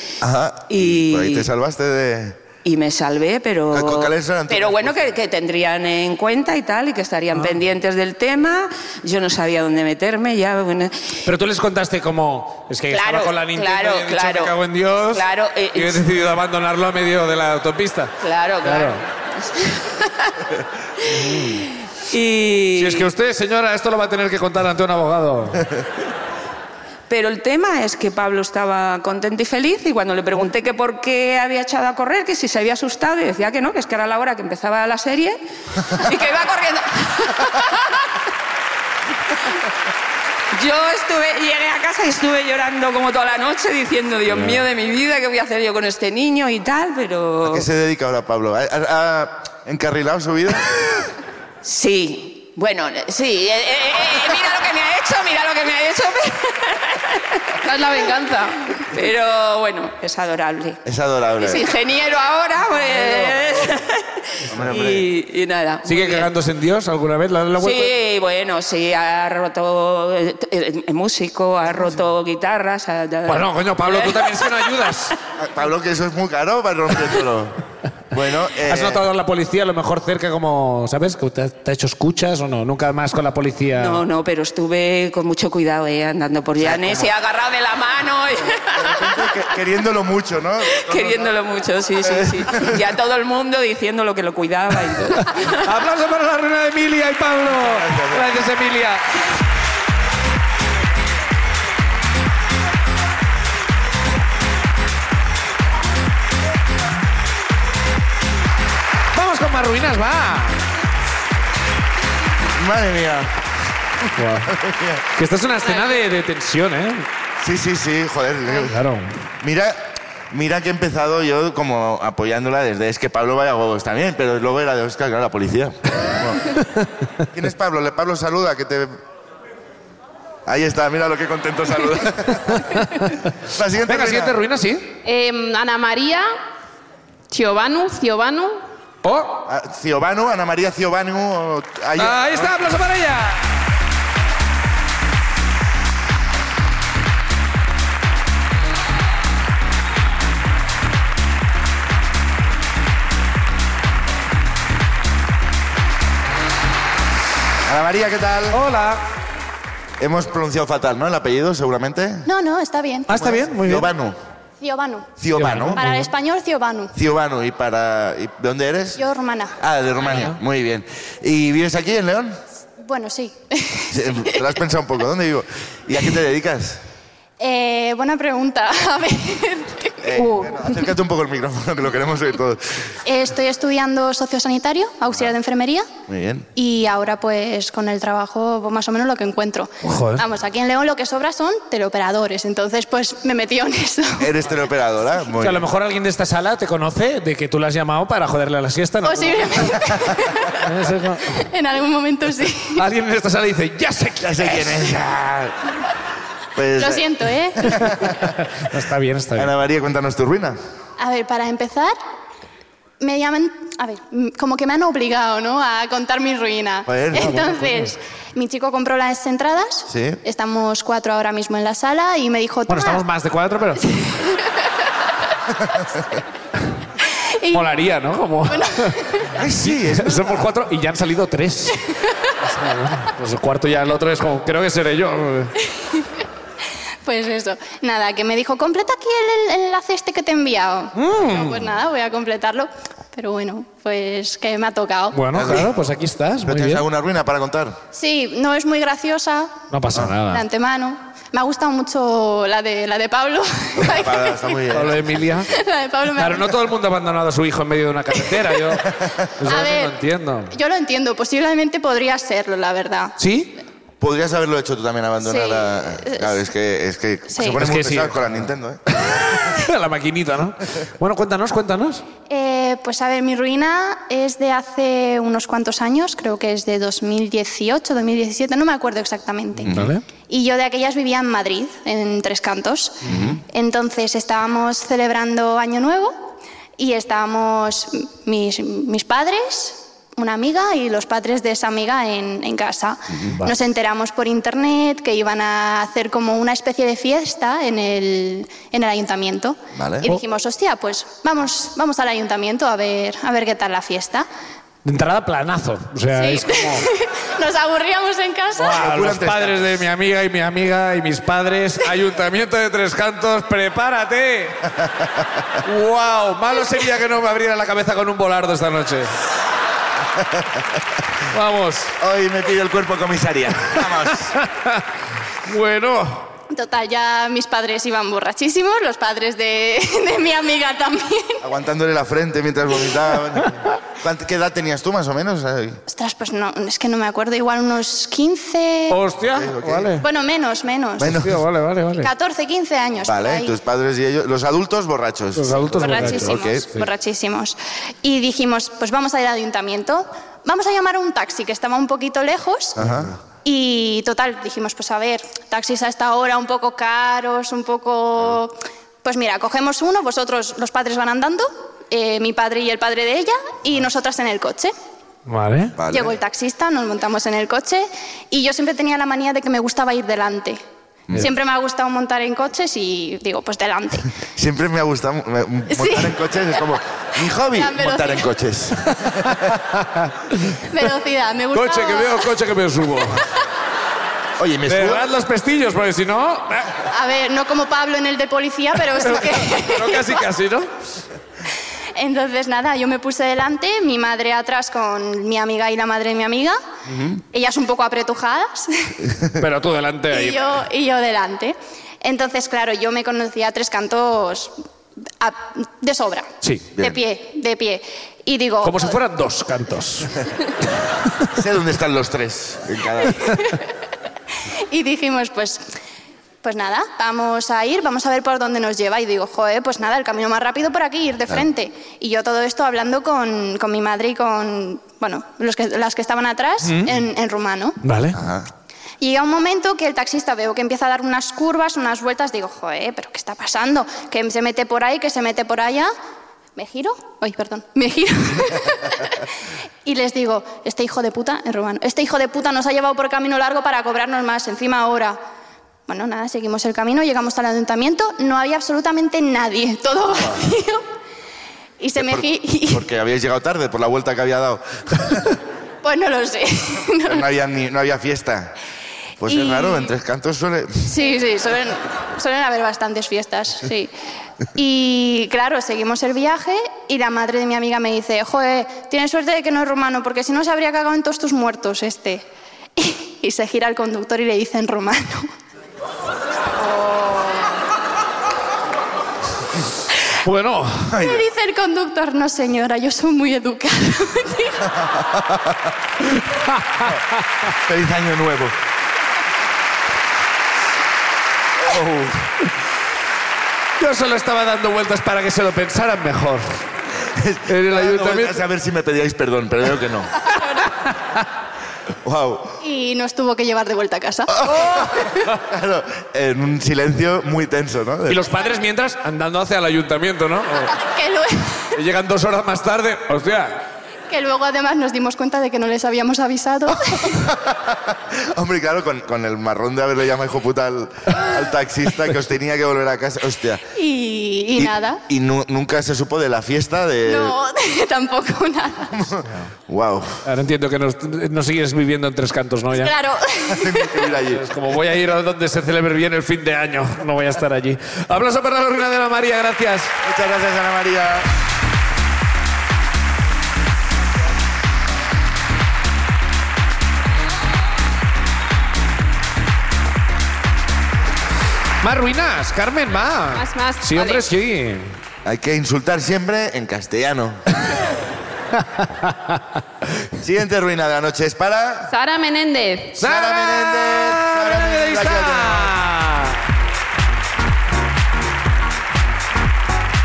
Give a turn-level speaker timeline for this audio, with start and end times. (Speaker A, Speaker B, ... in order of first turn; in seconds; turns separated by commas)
Speaker A: 0.2-2.4, Speaker B: 0.7-1.5, Speaker B: 2.6-10.9, Speaker A: 3.7-5.1, Speaker C: 11.3-19.0, Speaker B: 12.9-14.6, Speaker B: 15.1-16.1, Speaker B: 18.2-20.4, Speaker C: 21.1-21.6, Speaker B: 22.1-23.1, Speaker C: 22.8-25.6, Speaker B: 27.1-38.0, Speaker B: 40.5-47.7, Speaker C: 44.3-44.6, Speaker A: 47.5-50.7, Speaker B: 51.6-57.3, Speaker D: 57.6-58.8, Speaker B: 58.8-60.8, Speaker A: 60.9-61.6, Speaker B: 61.4-64.0, Speaker A: 64.5-65.1, Speaker B: 64.7-66.3, Speaker C: 65.9-68.0, Speaker B: 67.6-74.9, Speaker C: 73.3-75.2, Speaker A: 75.4-77.6, Speaker A: 78.1-79.1, Speaker C: 78.7-84.0, Speaker B: 83.7-89.0, Speaker A: 86.6-87.1, Speaker A: 88.8-91.4, Speaker B: 90.7-95.7, Speaker A: 92.0-92.8, Speaker C: 95.5-99.0, Speaker A: 97.5-98.4, Speaker C: 109.1-110.6, Speaker A: 112.5-113.3, Speaker C: 114.2-114.6, Speaker A: 114.5-115.0, Speaker C: 115.2-117.1, Speaker A: 117.4-118.8, Speaker C: 118.6-119.2, Speaker A: 119.4-126.5, Speaker A: 127.3-129.0, Speaker A: 130.5-132.7, Speaker C: 132.6-133.1, Speaker A: 133.4-134.4, Speaker C: 133.9-134.9, Speaker D: 135.1-136.3, Speaker D: 137.3-138.6, Speaker C: 139.0-139.4, Speaker A: 139.5-142.6, Speaker C: 142.0-143.6, Speaker A: 157.7-158.6, Speaker C: 158.5-159.0, Speaker A: 160.0-162.3, Speaker E: 162.2-163.2, Speaker C: 163.1-163.9, Speaker A: 163.1-164.2, Speaker E: 164.6-165.2, Speaker A: 165.2-165.8, Speaker C: 165.3-166.1, Speaker E: 165.8-166.9, Speaker A: 166.9-169.0, Speaker E: 169.0-169.6, Speaker A: 169.6-172.4, Speaker C: 170.1-170.4, Speaker E: 172.8-174.4, Speaker A: 173.9-176.8, Speaker E: 177.4-180.5, Speaker A: 180.0-182.8, Speaker E: 183.1-185.9, Speaker A: 186.1-186.5, Speaker E: 186.6-194.3, Speaker C: 189.8-190.2, Speaker A: 194.2-195.7, Speaker C: 195.4-199.7, Speaker E: 199.0-200.6, Speaker C: 200.6-201.4, Speaker E: 201.3-202.8, Speaker C: 202.8-204.9, Speaker A: 204.2-205.8, Speaker A: 206.6-208.3, Speaker E: 206.8-207.8, Speaker C: 208.0-209.5, Speaker A: 209.3-210.6, Speaker E: 211.0-211.9, Speaker E: 213.0-223.0, Speaker A: 216.9-217.5, Speaker C: 217.2-217.5, Speaker A: 219.9-220.2, Speaker C: 222.7-223.8, Speaker E: 223.8-224.2, Speaker A: 225.7-226.0, Speaker E: 227.4-227.7, Speaker C: 227.5-229.0, Speaker E: 228.5-229.4, Speaker A: 229.3-230.5, Speaker C: 229.6-231.8, Speaker C: 232.4-235.5, Speaker E: 237.1-245.2, Speaker C: 241.0-241.6, Speaker C: 245.1-246.8, Speaker A: 245.3-245.7, Speaker A: 246.4-247.8, Speaker E: 247.9-249.7, Speaker C: 249.7-250.4, Speaker E: 250.3-254.6, Speaker A: 253.8-255.5, Speaker C: 254.7-255.5, Speaker E: 255.5-256.6, Speaker C: 256.2-260.5, Speaker A: 259.0-259.3, Speaker E: 259.5-263.1, Speaker C: 263.2-263.5, Speaker A: 264.0-268.8, Speaker E: 265.2-266.4, Speaker E: 267.3-267.6, Speaker C: 267.6-268.2, Speaker C: 269.0-272.0, Speaker E: 272.3-286.2, Speaker A: 279.6-279.9, Speaker C: 279.7-280.1, Speaker A: 283.1-283.4, Speaker E: 286.8-304.3, Speaker A: 293.1-293.4, Speaker A: 299.8-300.1, Speaker C: 304.8-306.9, Speaker E: 306.1-308.9, Speaker C: 308.6-314.6, Speaker A: 308.8-309.7, Speaker A: 314.9-315.2, Speaker C: 315.6-319.1, Speaker A: 320.2-320.5, Speaker C: 321.3-321.9, Speaker A: 322.0-324.4, Speaker C: 324.3-324.8, Speaker C: 325.4-326.3, Speaker E: 326.5-331.4, Speaker A: 331.4-335.8, Speaker E: 335.9-339.0, Speaker C: 338.9-340.1, Speaker A: 339.3-340.0, Speaker E: 340.0-341.2, Speaker A: 341.0-341.4, Speaker C: 341.0-342.1, Speaker E: 342.0-343.6, Speaker A: 343.0-346.7, Speaker C: 345.4-346.9, Speaker E: 345.7-352.8, Speaker A: 352.8-353.1, Speaker E: 353.4-364.7, Speaker C: 365.3-365.8, Speaker A: 365.8-366.2, Speaker E: 365.9-370.6, Speaker E: 371.1-374.1, Speaker A: 374.4-379.5, Speaker E: 375.7-376.2, Speaker E: 377.4-378.2, Speaker E: 380.7-382.3, Speaker C: 381.5-383.2, Speaker A: 384.4-385.1, Speaker C: 384.7-386.8, Speaker E: 386.9-390.2, Speaker C: 389.0-390.7, Speaker E: 391.9-396.6, Speaker E: 397.3-399.0, Speaker C: 399.4-400.4, Speaker E: 400.1-404.6, Speaker E: 405.2-409.0, Speaker C: 406.4-406.7, Speaker C: 408.6-410.2, Speaker A: 411.3-413.4, Speaker E: 414.7-415.6, Speaker E: 416.4-427.8, Speaker C: 426.6-426.9, Speaker C: 427.8-428.2, Speaker A: 428.1-428.5, Speaker E: 429.0-435.9, Speaker E: 436.6-439.3, Speaker E: 439.9-445.2, Speaker E: 445.9-450.9, Speaker E: 451.8-452.9, Speaker A: 452.0-455.3, Speaker E: 455.8-457.3, Speaker A: 457.1-458.6, Speaker A: 459.2-461.0, Speaker E: 459.3-459.9, Speaker E: 460.8-463.9, Speaker E: 464.6-472.2, Speaker E: 472.8-475.3, Speaker E: 476.6-477.5, Speaker C: 480.2-481.0, Speaker A: 480.9-481.2, Speaker E: 481.0-484.7, Speaker A: 484.8-485.6, Speaker C: 486.4-487.0, Speaker A: 487.6-488.6, Speaker A: 491.6-492.3, Speaker C: 493.8-496.6, Speaker A: 497.1-500.1, Speaker C: 497.5-498.4, Speaker A: 502.0-502.6, Speaker E: 502.6-504.5, Speaker A: 504.3-508.2, Speaker C: 508.1-510.7, Speaker E: 510.8-511.8, Speaker C: 511.7-513.6, Speaker E: 514.1-517.3, Speaker A: 516.7-523.6, Speaker E: 523.8-525.0, Speaker A: 524.6-527.4, Speaker E: 527.0-529.1, Speaker A: 528.9-530.2, Speaker C: 530.2-533.0, Speaker E: 532.7-534.0, Speaker A: 533.5-534.5, Speaker C: 534.2-539.9, Speaker A: 540.0-541.3, Speaker C: 551.8-555.0, Speaker D: 553.3-554.3, Speaker A: 555.2-557.5, Speaker C: 558.6-559.4, Speaker A: 560.2-561.9, Speaker D: 561.9-563.0, Speaker C: 563.0-566.4, Speaker A: 563.0-565.8